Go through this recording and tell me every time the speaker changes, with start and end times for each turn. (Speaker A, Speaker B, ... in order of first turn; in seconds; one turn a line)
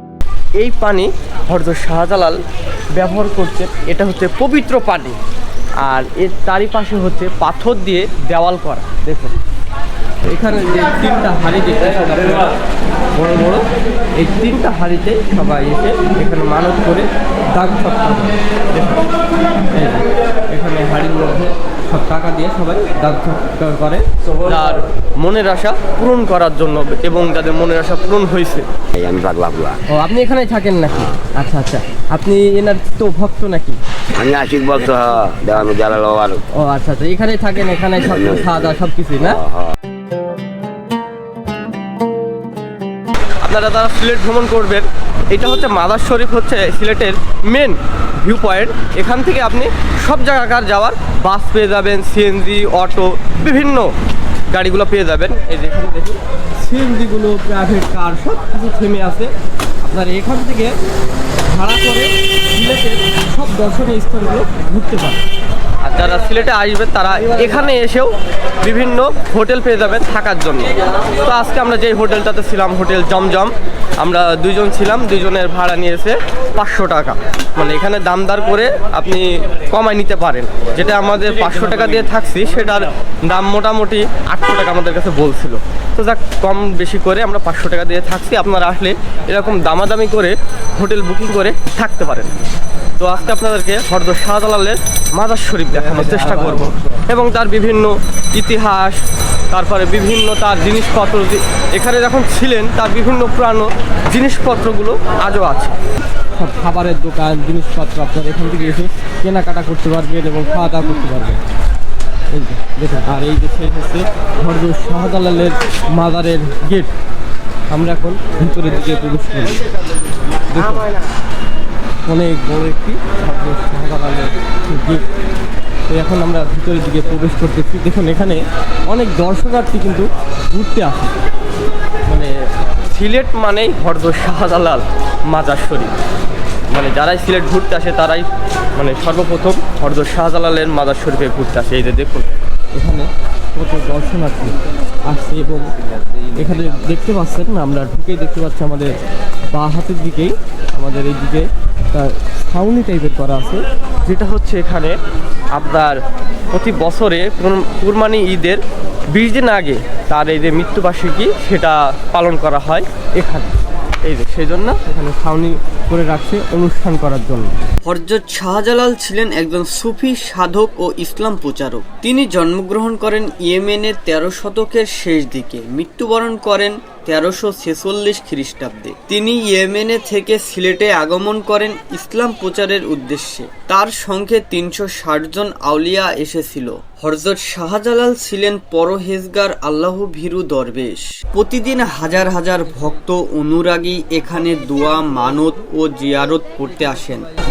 Speaker A: 0.6-2.4
Speaker A: 3.0-5.2
Speaker A: 5.8-9.3
Speaker A: 10.2-12.5
Speaker A: 13.2-13.7
Speaker A: 14.2-19.1
Speaker A: 19.7-28.7
Speaker B: 29.0-29.8
Speaker A: 29.9-33.8
Speaker B: 34.2-36.4
Speaker A: 36.6-39.4
Speaker B: 38.1-38.5
Speaker B: 39.2-39.8
Speaker A: 43.4-54.0
Speaker A: 54.5-60.8
Speaker A: 61.5-65.2
Speaker A: 65.8-92.3
Speaker A: 93.0-105.8
Speaker A: 106.4-111.4
Speaker A: 112.3-116.9
Speaker A: 117.7-119.6
Speaker A: 120.5-120.9
Speaker A: 122.0-125.0
Speaker A: 125.9-131.1
Speaker A: 132.1-132.3
Speaker A: 132.9-135.9
Speaker A: 136.7-144.6
Speaker A: 145.1-145.8
Speaker A: 146.3-149.0
Speaker A: 149.5-155.0
Speaker A: 155.5-163.5
Speaker A: 164.0-167.6
Speaker C: 167.8-197.3